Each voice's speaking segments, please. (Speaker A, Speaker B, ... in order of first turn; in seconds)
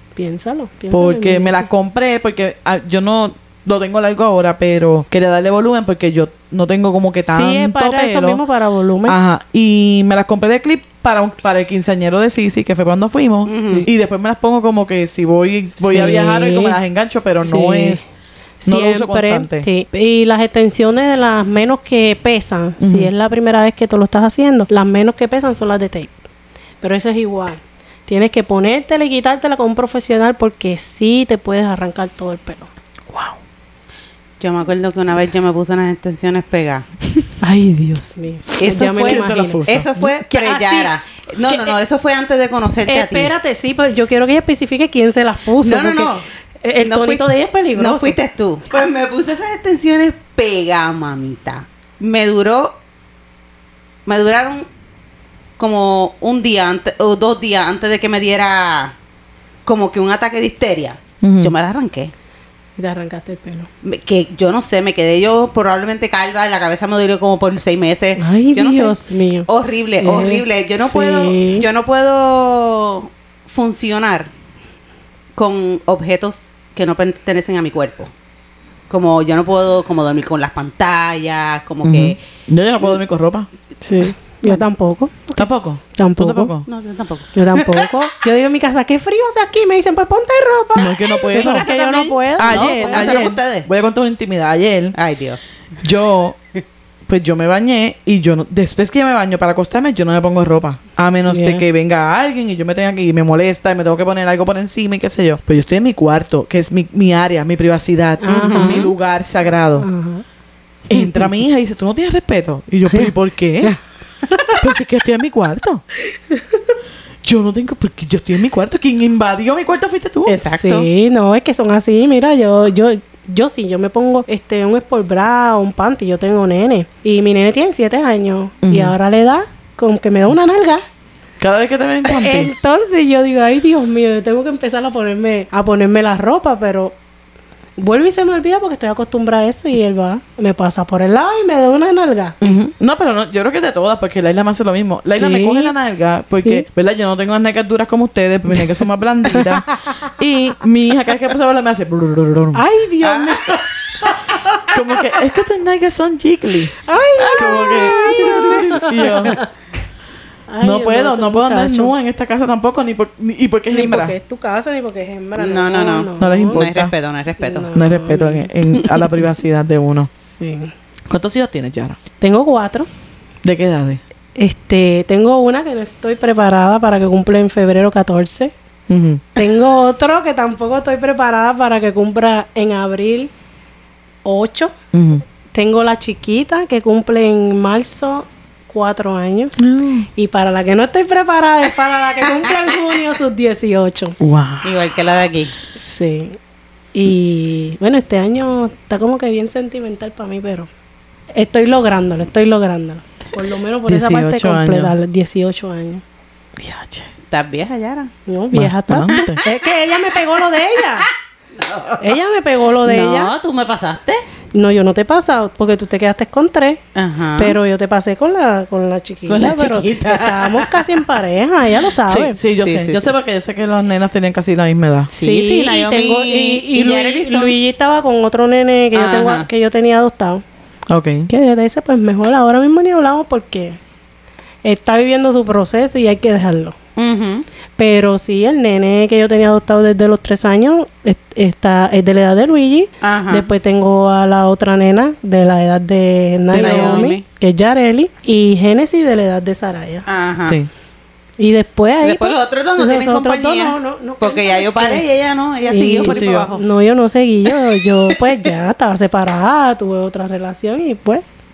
Speaker A: 0.1-1.7, 7.2-9.2, 15.8-16.8, 17.4-18.1, 18.6-26.1, 26.8-32.7, 37.4-40.9, 41.5-41.8, 42.9-48.2, 62.8-63.7, 68.2-71.7, 83.8-86.5, 87.3-93.3, 101.3-101.6, 108.2-108.9, 109.8-110.2, 111.0-111.3, 114.3-114.6, 116.3-116.8, 120.5-130.8, 132.0-136.9, 137.8-142.4, 145.2-145.7, 146.4-146.7, 152.6-154.4, 156.8-159.5, 160.5-161.9, 163.7-166.6, 167.4-168.5, 170.2-170.7, 172.2-172.9, 174.4-178.5, 179.4-183.3, 184.2-184.7, 185.5-194.2, 195.8-196.4, 196.9-200.7, 201.3-206.0, 208.3-211.1, 212.0-213.3, 214.5-216.8, 217.4-222.4, 225.1-230.4, 231.3-233.8, 234.6-236.8, 237.8-250.1, 251.4-255.0, 255.7-261.2
Speaker B: 0.9-8.4, 9.1-18.0, 18.6-19.7, 22.8-23.1, 39.0-39.9, 61.2-61.5, 81.8-83.5, 85.4-86.7, 90.8-91.7, 92.4-95.0, 95.8-96.4, 97.1-109.9, 110.9-113.8, 114.6-115.8, 117.2-120.4, 128.6-128.9, 131.4-132.5, 142.4-152.6, 154.7-156.8, 157.3-159.4, 160.6-164.1, 166.2-166.9, 167.8-170.1, 171.1-172.0, 173.4-174.0, 178.9-179.2, 184.9-185.2, 189.6-190.1, 194.2-194.7, 203.9-204.9, 206.6-207.1, 208.5-209.4, 222.1-225.1, 230.9-231.3, 246.6-247.1, 250.4-250.7, 256.0-256.5
Speaker C: 13.5-13.9, 34.4-36.9, 38.6-43.3, 45.6-46.2, 46.8-52.8, 54.1-54.7, 55.6-59.0, 59.6-62.1, 63.8-74.3, 75.4-78.1, 78.9-82.2, 86.7-87.9, 90.8-93.7, 95.0-95.4, 108.3-108.9, 120.3-120.9, 153.0-153.7, 157.2-157.5, 158.2-158.5, 165.4-167.7, 194.6-195.5, 207.3-208.1, 211.6-212.2, 212.8-214.2, 216.9-217.6, 219.3-221.0, 222.6-223.1, 225.2-227.6, 228.9-229.5, 237.0-237.4, 243.0-243.5, 246.5-247.2, 250.1-250.6, 252.0-256.7